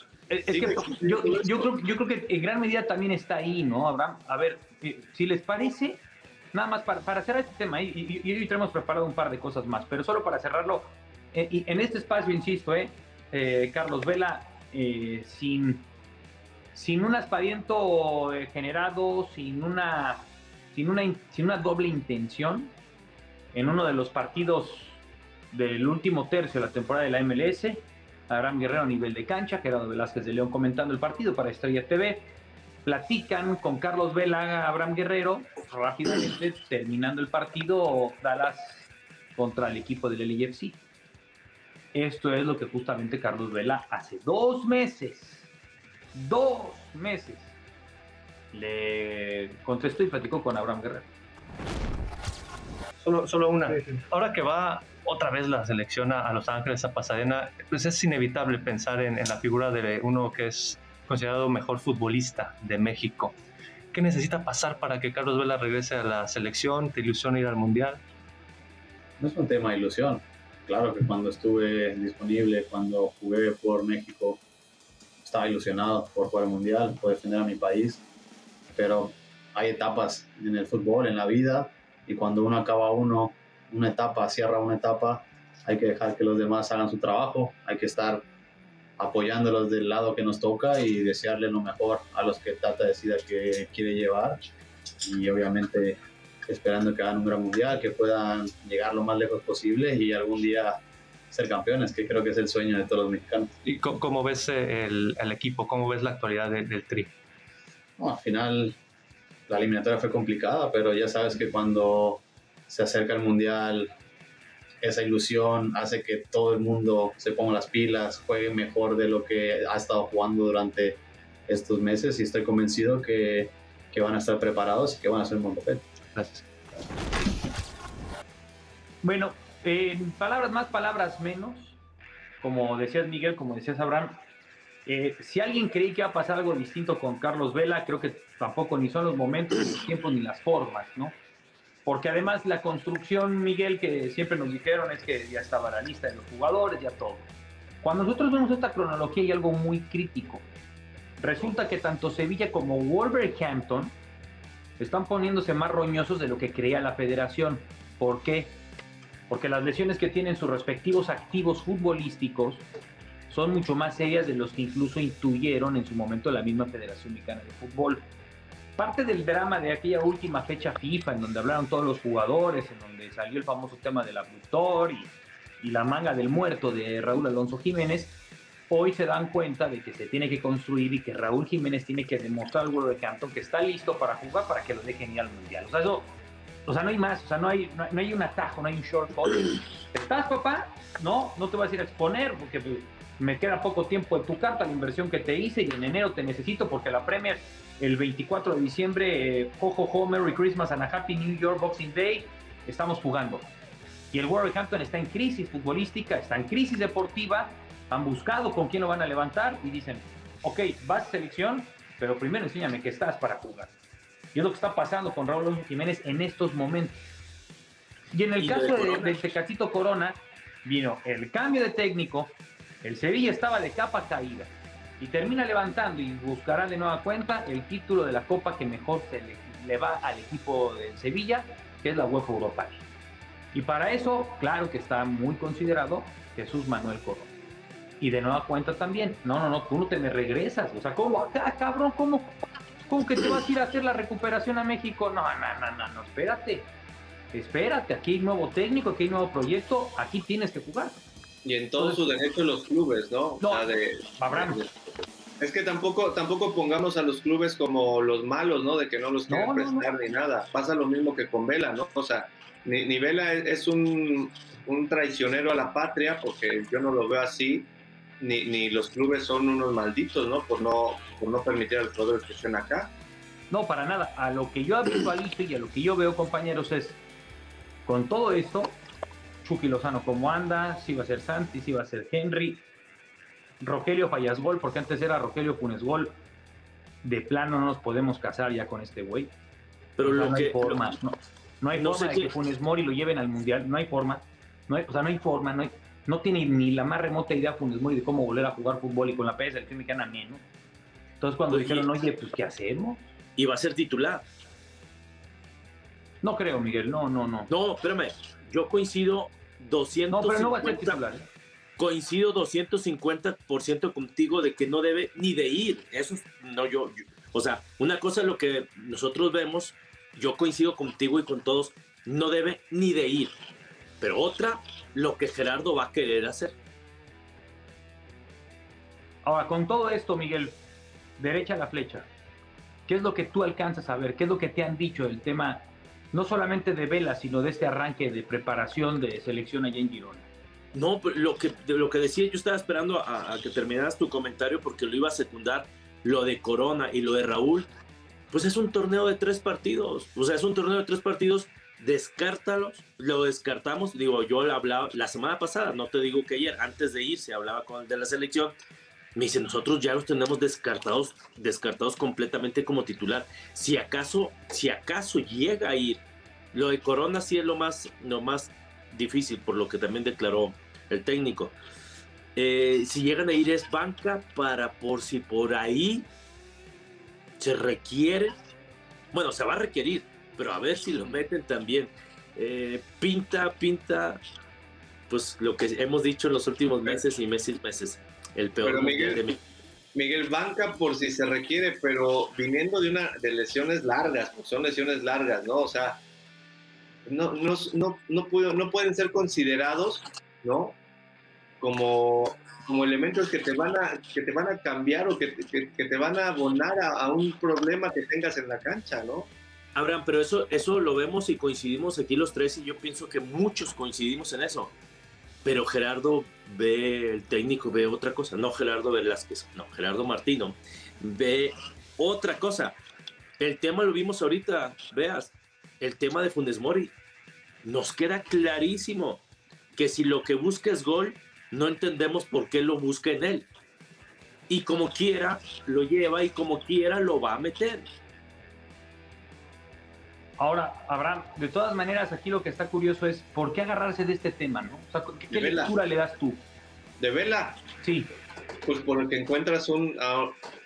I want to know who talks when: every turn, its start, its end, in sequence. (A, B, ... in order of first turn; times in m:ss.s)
0:00.3-0:06.0 A
0:00.5-0:01.7 B
0:06.5-0:15.8 A
0:16.7-0:22.7 A
0:23.5-0:32.3 A
0:32.8-0:40.8 A
0:41.9-0:45.5 A
0:46.1-0:47.5 A
0:48.5-0:51.1 A
0:53.0-1:03.4 C
1:03.9-1:08.0 C
1:09.2-1:14.4 D
1:15.2-1:18.0 D
1:18.8-1:28.3 D
1:29.0-1:34.4 D
1:35.0-1:43.5 D
1:43.6-1:47.1 C
1:48.0-1:48.8 D
1:49.5-1:53.9 D
1:54.8-2:05.8 D
2:06.2-2:06.4 C
2:09.0-2:11.8 A
2:12.4-2:14.2 A
2:14.8-2:21.2 A
2:21.8-2:27.3 A
2:27.8-2:30.5 A
2:31.2-2:34.0 A
2:34.8-2:38.6 A
2:39.3-2:42.7 A
2:43.3-2:48.0 A
2:48.8-2:58.2 A
2:58.7-3:06.1 A
3:06.6-3:23.5 A
3:24.1-3:33.7 A
3:34.3-3:37.0 A
3:38.1-3:52.8 A
3:38.4-3:39.2 E
3:53.5-3:57.3 A
3:58.0-4:02.3 A
4:02.9-4:06.7 A
4:07.3-4:11.0 A
4:11.4-4:14.7 B
4:11.8-4:12.0 A
4:13.4-4:14.6 A
4:15.4-4:27.7 B
4:19.3-4:19.9 A
4:28.2-4:32.9 B
4:33.5-4:37.0 A
4:37.8-4:38.8 A
4:39.4-4:42.6 A
4:43.6-4:46.2 A
4:47.0-4:49.3 A
4:50.0-4:50.8 E
4:50.0-5:00.4 A
4:51.8-4:52.3 E
5:01.2-5:03.0 A
5:01.5-5:01.9 E
5:03.4-5:04.2 E
5:06.2-5:07.5 A
5:07.5-5:11.0 E
5:10.1-5:11.3 A
5:11.8-5:23.3 E
5:24.0-5:26.5 E
5:29.2-5:30.6 A
5:31.2-5:32.1 A
5:32.9-5:40.3 A
5:40.7-5:47.7 E
5:48.3-5:58.5 E
5:59.1-6:06.0 E
6:06.5-6:11.5 E
6:12.4-6:16.1 E
6:17.4-6:18.3 E
6:19.1-6:24.2 E
6:25.1-6:29.4 E
6:26.7-6:27.0 B
6:28.6-6:29.2 B
6:29.9-6:36.0 B
6:37.0-6:40.8 B
6:41.6-6:49.3 B
6:49.7-6:54.7 E
6:55.4-7:02.8 E
7:03.4-7:06.9 E
7:07.6-7:09.2 E
7:09.7-7:13.5 E
7:14.5-7:17.8 E
7:20.4-7:26.4 A
7:25.3-7:25.7 B
7:27.0-7:27.6 B
7:27.8-7:28.1 A
7:28.6-7:30.4 B